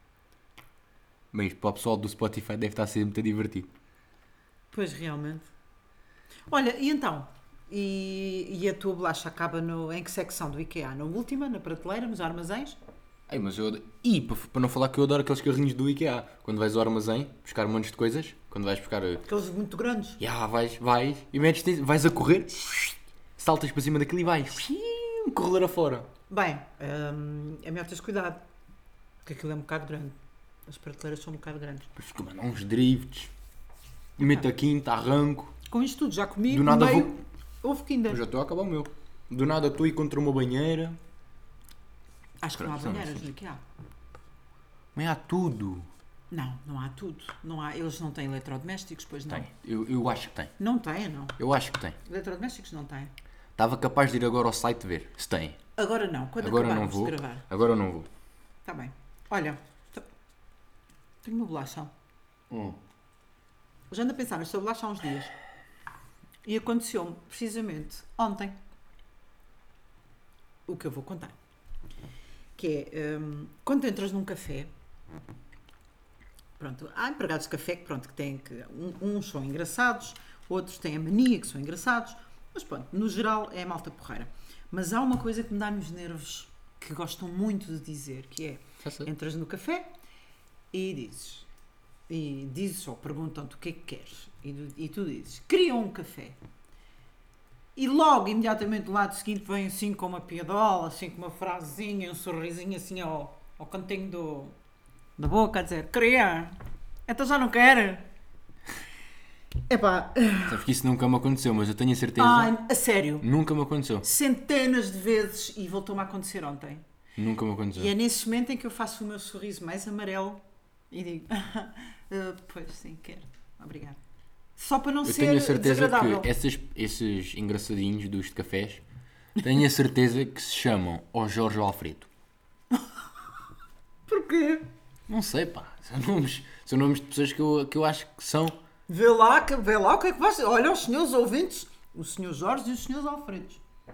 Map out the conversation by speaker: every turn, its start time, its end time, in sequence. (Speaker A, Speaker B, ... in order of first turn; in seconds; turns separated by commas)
Speaker A: 1.3-3.7, Speaker B: 4.7-5.5, Speaker B: 6.5-12.8, Speaker A: 13.3-19.2, Speaker B: 19.2-20.2, Speaker A: 20.2-26.1, Speaker B: 26.3-28.4, Speaker B: 29.2-31.9, Speaker A: 31.9-33.3, Speaker A: 34.2-35.5, Speaker B: 34.2-34.5, Speaker B: 35.7-38.2, Speaker A: 36.5-37.2, Speaker A: 38.1-41.0, Speaker B: 42.4-43.6, Speaker A: 42.6-43.2, Speaker A: 44.9-45.9, Speaker B: 46.3-49.5, Speaker A: 49.3-50.5, Speaker B: 50.6-51.4, Speaker A: 51.4-52.0, Speaker B: 52.0-53.1, Speaker A: 53.5-55.6, Speaker B: 55.8-57.4, Speaker A: 56.4-58.1, Speaker B: 58.6-60.1, Speaker B: 61.2-61.9, Speaker B: 63.9-65.3, Speaker B: 66.4-68.6, Speaker B: 70.7-71.3, Speaker B: 72.5-74.7, Speaker B: 76.6-89.9, Speaker A: 88.8-89.1, Speaker B: 90.7-91.5, Speaker B: 92.1-96.4, Speaker B: 97.8-104.5, Speaker B: 105.2-108.0, Speaker B: 109.7-110.6, Speaker A: 110.5-112.6, Speaker B: 112.2-113.3, Speaker A: 113.2-114.0, Speaker B: 114.0-116.8, Speaker A: 117.2-117.9, Speaker B: 117.7-124.0, Speaker B: 124.6-126.3, Speaker A: 125.0-128.8, Speaker A: 129.4-132.1, Speaker B: 132.7-133.0, Speaker B: 134.1-134.7, Speaker A: 135.1-138.6, Speaker B: 138.9-143.6